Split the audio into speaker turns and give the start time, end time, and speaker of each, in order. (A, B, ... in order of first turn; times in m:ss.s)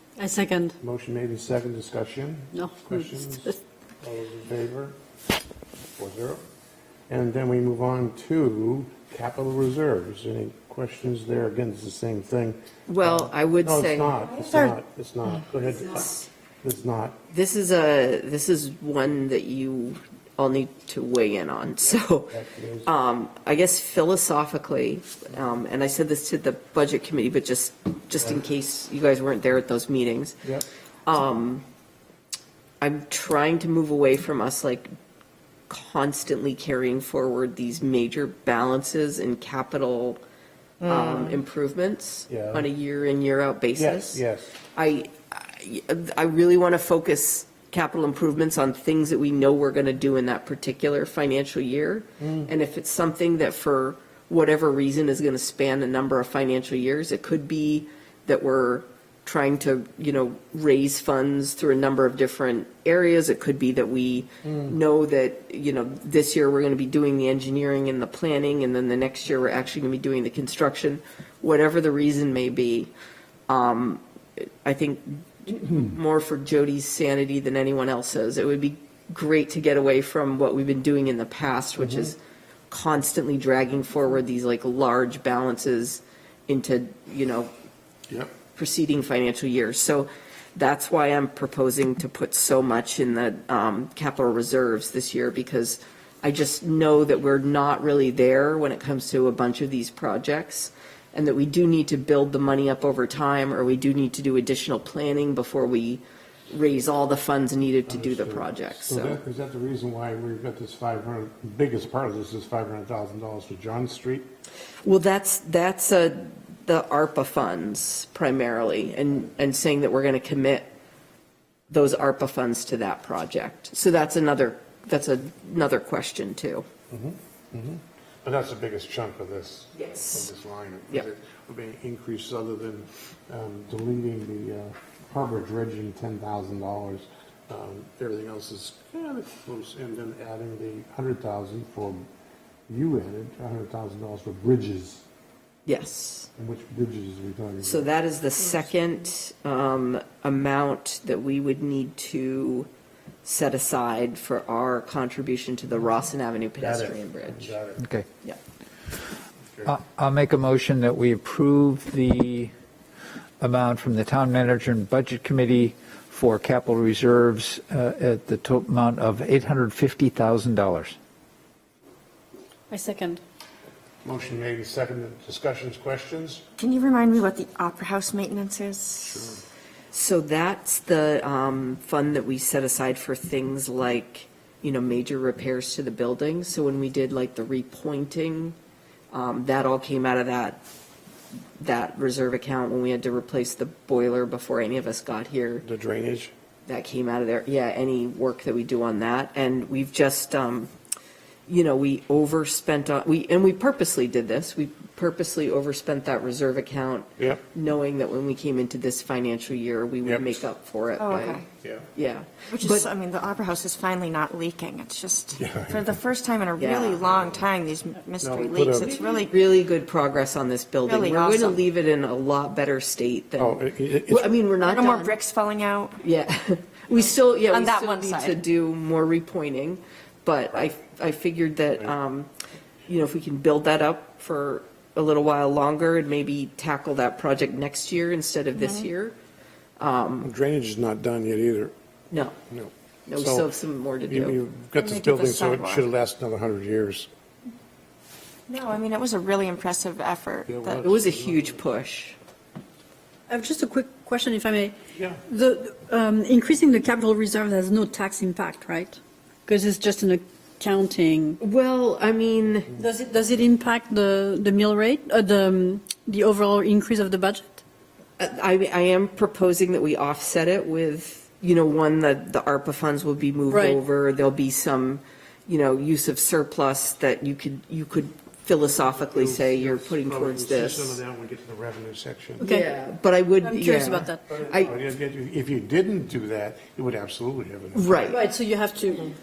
0:00.2-0:00.8 A
0:00.8-0:05.0 B
0:02.5-0:03.6 A
0:06.0-0:06.4 B
0:07.1-0:17.2 B
0:12.9-0:14.2 C
0:14.2-0:14.7 D
0:15.8-0:16.2 C
0:17.3-0:30.4 C
0:22.3-0:22.9 B
0:31.0-0:31.6 C
0:32.8-0:34.9 C
0:35.7-0:40.2 C
0:40.8-0:44.2 C
0:42.3-0:42.7 B
0:43.7-0:44.5 B
0:44.7-1:12.9 C
0:52.2-0:52.5 B
1:13.5-1:22.2 C
1:21.8-1:22.1 B
1:22.7-1:27.5 C
1:28.1-1:28.3 B
1:28.5-1:49.2 C
1:47.9-1:54.3 B
1:54.8-2:00.7 C
2:01.7-2:06.6 C
2:06.9-2:22.0 B
2:09.7-2:10.3 C
2:22.7-2:25.0 B
2:25.6-2:26.3 C
2:26.4-2:27.9 B
2:27.6-2:32.7 C
2:33.2-2:37.5 C
2:36.6-2:37.9 B
2:39.6-2:42.5 E
2:43.4-2:51.0 E
2:52.7-2:53.2 A
2:54.0-2:56.4 B
2:56.6-2:59.3 D
2:59.0-2:59.4 B
2:59.9-3:08.6 C
3:09.1-3:10.6 C
3:11.6-3:15.6 C
3:15.6-3:16.3 B
3:16.6-3:20.7 C
3:21.5-3:31.4 C
3:27.2-3:27.4 B
3:30.0-3:30.4 B
3:31.0-3:31.4 D
3:31.9-3:32.9 C
3:32.5-3:39.4 D
3:35.4-3:36.0 B
3:36.6-3:37.0 C
3:38.2-3:38.9 B
3:38.8-3:45.2 C
3:40.8-3:41.6 D
3:43.4-3:44.3 B
3:44.6-3:46.0 D
3:46.0-3:52.3 C
3:47.5-3:48.4 D
3:52.9-3:59.2 C
3:59.8-4:00.3 C
4:00.2-4:01.7 B
4:02.5-4:03.5 B
4:03.1-4:04.4 C
4:04.0-4:07.1 B
4:04.8-4:05.8 D
4:08.5-4:10.9 D
4:10.5-4:11.6 B
4:10.8-4:12.2 C
4:13.3-4:14.7 A
4:14.9-4:15.2 B
4:15.3-4:21.4 A
4:21.4-4:22.7 C
4:22.8-4:27.6 A
4:28.2-4:41.0 C
4:33.5-4:33.8 A
4:38.9-4:42.4 B
4:42.4-4:42.7 A
4:42.4-4:44.7 C
4:43.4-4:44.2 A
4:44.3-4:48.1 B
4:47.7-4:48.2 C
4:48.1-4:49.1 A